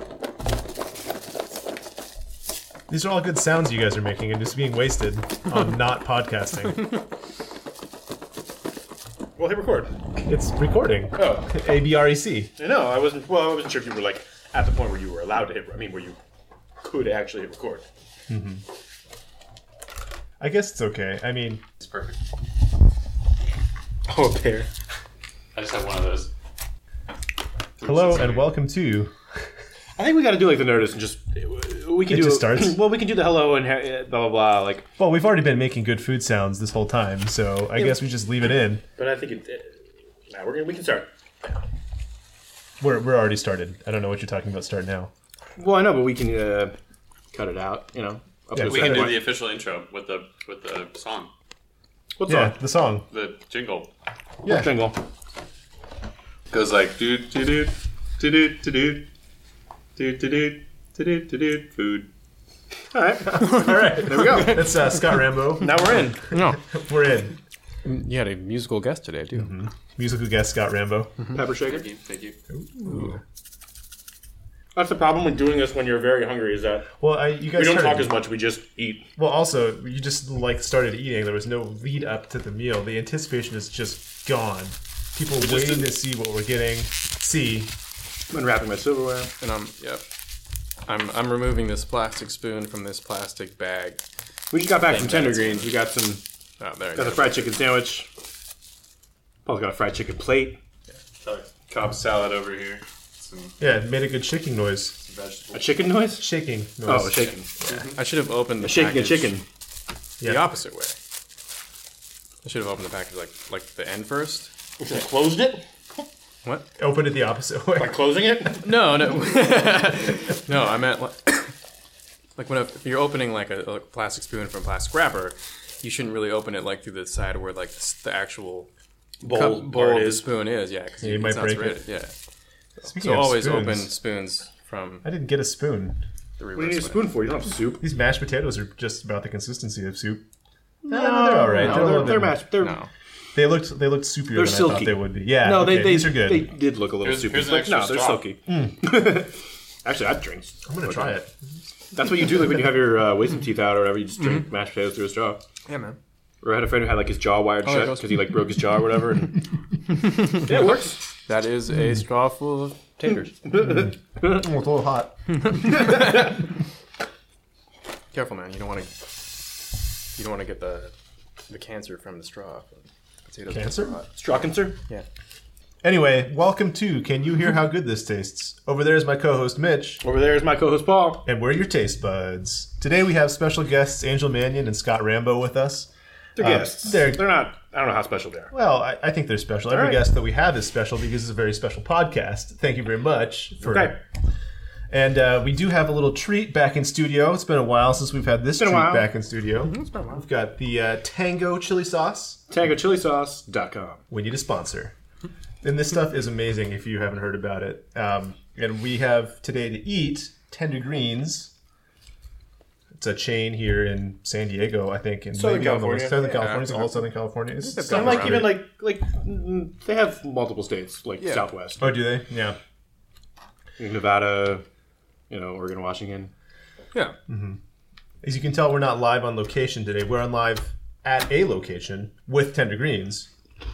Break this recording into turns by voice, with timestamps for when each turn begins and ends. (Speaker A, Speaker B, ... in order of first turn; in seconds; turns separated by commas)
Speaker A: 2.9-7.0, Speaker B: 9.4-9.9, Speaker A: 10.2-12.5, Speaker B: 11.2-11.5, Speaker B: 12.6-16.2, Speaker B: 16.8-17.9, Speaker A: 18.3-18.6, Speaker A: 20.4-21.6, Speaker C: 21.8-22.2, Speaker B: 24.1-24.7, Speaker C: 25.5-26.3, Speaker C: 27.8-28.5, Speaker A: 27.8-29.1, Speaker B: 30.0-34.9, Speaker A: 32.1-32.8, Speaker A: 35.0-38.8, Speaker B: 39.0-41.1, Speaker A: 42.8-45.1, Speaker B: 45.6-46.7, Speaker B: 47.3-49.3, Speaker A: 48.5-49.3, Speaker C: 48.6-51.3, Speaker B: 52.2-52.5, Speaker A: 52.2-53.0, Speaker C: 53.1-53.9, Speaker A: 54.4-54.8, Speaker B: 54.4-55.0, Speaker C: 56.5-59.0, Speaker C: 60.0-62.1, Speaker B: 62.9-64.6, Speaker A: 63.2-67.3, Speaker B: 65.6-66.3, Speaker D: 66.3-66.6, Speaker D: 67.8-69.6, Speaker A: 69.3-71.2, Speaker B: 71.3-71.8, Speaker C: 71.6-72.4, Speaker A: 72.5-73.2, Speaker B: 74.7-76.9, Speaker A: 77.0-78.1, Speaker B: 77.5-79.1, Speaker A: 79.2-87.7, Speaker B: 85.4-85.9, Speaker B: 88.3-89.3, Speaker D: 89.4-90.0, Speaker D: 90.9-94.0, Speaker B: 94.5-96.2, Speaker D: 94.9-95.7, Speaker D: 96.6-97.4, Speaker B: 97.0-98.1, Speaker B: 99.5-100.6, Speaker C: 101.2-103.5, Speaker A: 103.6-105.0, Speaker C: 105.0-105.8, Speaker B: 105.5-106.3, Speaker A: 106.2-107.3, Speaker B: 106.8-107.5, Speaker D: 107.6-109.4, Speaker C: 107.6-108.0, Speaker B: 108.6-109.4, Speaker A: 110.2-110.5, Speaker D: 110.2-110.9, Speaker D: 112.4-114.5, Speaker B: 114.8-115.6, Speaker A: 116.8-118.5, Speaker B: 117.8-118.7, Speaker D: 118.6-121.5, Speaker D: 122.4-128.7, Speaker B: 129.2-130.2, Speaker D: 129.2-132.1, Speaker A: 131.0-131.8, Speaker D: 132.8-135.1, Speaker A: 132.9-133.9, Speaker A: 135.0-136.0, Speaker D: 136.4-137.1, Speaker B: 136.5-137.8, Speaker A: 137.8-140.2, Speaker B: 140.8-142.8, Speaker A: 140.9-142.4, Speaker D: 141.6-142.0, Speaker D: 142.6-142.9, Speaker A: 143.3-146.5, Speaker B: 144.3-151.1, Speaker C: 147.0-148.2, Speaker A: 148.5-148.8, Speaker A: 150.7-151.3, Speaker B: 151.9-155.4, Speaker D: 155.7-156.0, Speaker B: 156.4-159.4, Speaker D: 157.6-158.4, Speaker D: 160.0-163.4, Speaker B: 160.2-161.0, Speaker B: 163.4-164.4, Speaker A: 163.6-165.4, Speaker D: 165.4-166.3, Speaker B: 165.7-166.1, Speaker D: 168.1-169.1, Speaker D: 170.1-170.9, Speaker D: 171.5-175.0, Speaker A: 173.5-174.0, Speaker B: 174.1-174.8, Speaker A: 175.8-180.0, Speaker B: 180.0-181.3, Speaker A: 181.2-187.3, Speaker B: 186.3-188.5, Speaker A: 188.5-194.0, Speaker B: 189.7-190.0, Speaker B: 193.6-194.0, Speaker A: 194.9-202.4, Speaker B: 198.6-199.0, Speaker D: 199.7-200.2, Speaker B: 202.5-204.0, Speaker A: 204.1-204.9, Speaker A: 205.6-211.5, Speaker A: 212.9-218.6, Speaker B: 215.3-216.2, Speaker D: 216.2-218.5, Speaker B: 217.9-222.0, Speaker D: 221.2-221.4, Speaker A: 221.8-222.6, Speaker B: 223.8-224.6, Speaker B: 225.3-226.3, Speaker A: 227.3-227.6, Speaker A: 228.2-233.3